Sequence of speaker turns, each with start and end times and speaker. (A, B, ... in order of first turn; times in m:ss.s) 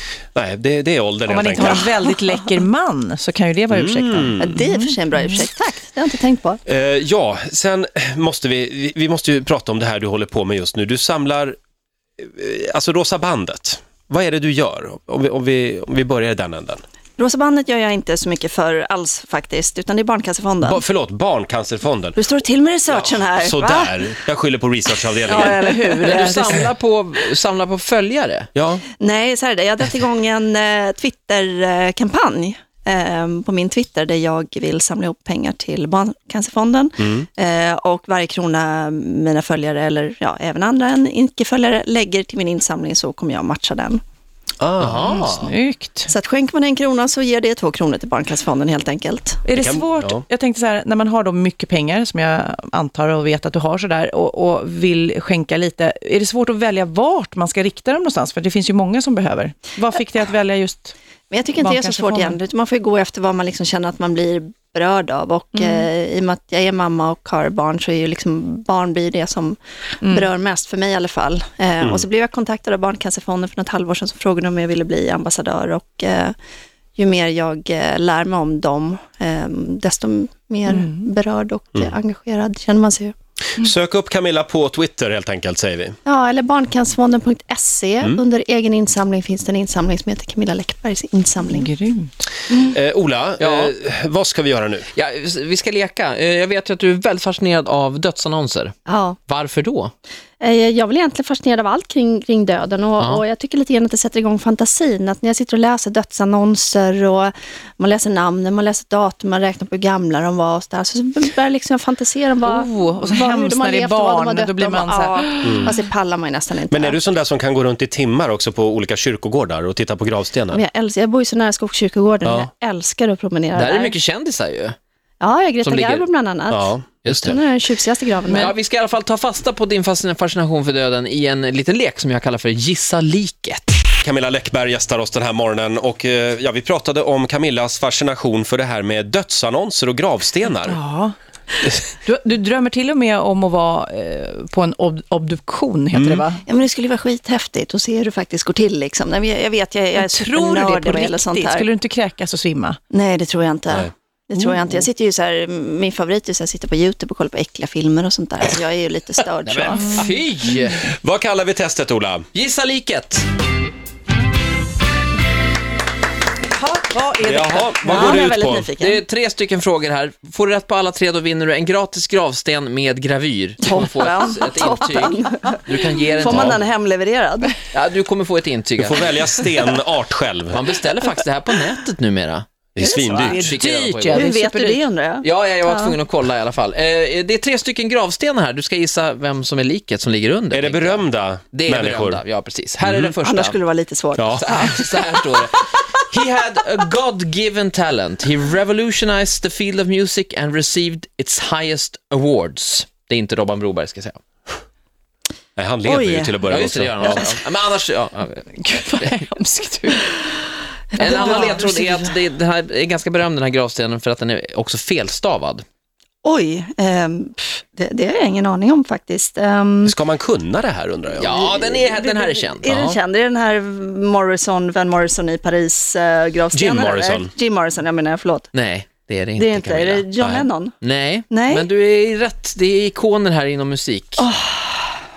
0:00.3-0:01.9 A
0:01.2-0:05.4 B
0:03.7-0:04.5 A
0:04.4-0:06.6 C
0:06.7-0:11.6 A
0:12.2-0:16.8 A
0:17.2-0:20.8 C
0:20.6-0:22.2 A
0:22.1-0:23.9 C
0:22.9-0:26.3 A
0:25.3-0:26.6 B
0:26.0-0:28.5 D
0:28.5-0:28.9 A
0:29.0-0:44.0 C
0:37.0-0:37.3 A
0:44.6-0:45.1 A
0:44.8-0:45.5 D
0:45.0-0:46.1 B
0:46.1-0:49.4 C
0:49.4-1:00.9 B
0:49.5-0:50.2 A
1:01.3-1:16.3 C
1:01.6-1:02.4 B
1:05.5-1:05.9 B
1:10.0-1:10.3 B
1:17.0-1:23.1 C
1:20.7-1:21.0 B
1:23.6-1:26.0 A
1:26.0-1:31.7 C
1:31.4-1:32.1 B
1:32.6-1:34.9 A
1:33.4-1:33.7 D
1:34.9-1:38.7 D
1:38.8-1:39.2 C
1:39.3-1:39.9 D
1:40.4-1:57.0 C
1:52.4-1:55.7 B
1:55.4-1:55.7 A
1:56.7-2:00.6 A
2:00.5-2:04.0 C
2:03.5-2:04.8 D
2:05.2-2:08.5 C
2:05.6-2:06.0 D
2:06.5-2:07.4 A
2:07.0-2:07.4 D
2:08.4-2:13.7 D
2:14.0-2:20.8 A
2:20.6-2:21.1 B
2:22.0-2:26.4 B
2:25.9-2:26.2 A
2:26.4-2:31.7 C
2:29.9-2:32.8 B
2:32.9-2:40.0 C
2:39.4-2:40.8 D
2:39.8-2:40.1 B
2:40.9-2:42.2 A
2:42.3-2:43.3 D
2:46.5-2:48.2 B
2:47.2-2:48.7 A
2:47.8-2:49.0 C
2:48.8-2:56.6 D
2:53.6-2:57.5 C
2:56.2-2:56.6 A
2:57.7-2:59.1 D
2:58.8-3:00.6 A
3:00.5-3:02.4 D
3:02.7-3:03.6 A
3:02.8-3:03.4 C
3:03.2-3:04.8 B
3:03.4-3:04.3 D
3:04.1-3:06.0 C
3:05.2-3:13.6 D
3:10.5-3:12.2 A
3:12.8-3:13.1 A
3:13.2-3:15.2 C
3:14.2-3:14.7 A
3:14.4-3:24.2 D
3:25.6-3:27.2 A
3:25.8-3:26.4 C
3:26.5-3:29.2 D
3:27.0-3:27.3 C
3:28.6-3:30.3 B
3:30.9-3:31.9 C
3:31.0-3:32.1 B
3:31.0-3:35.6 D
3:36.2-3:40.0 C
3:39.8-3:41.4 A
3:41.2-3:42.9 D
3:41.3-3:48.5 C
3:42.7-3:43.0 A
3:46.5-3:47.3 A
3:48.5-3:50.1 D
3:49.4-3:50.7 C
3:50.2-3:50.5 A
3:50.8-3:54.2 D
3:51.3-3:51.6 C
3:54.2-3:55.0 C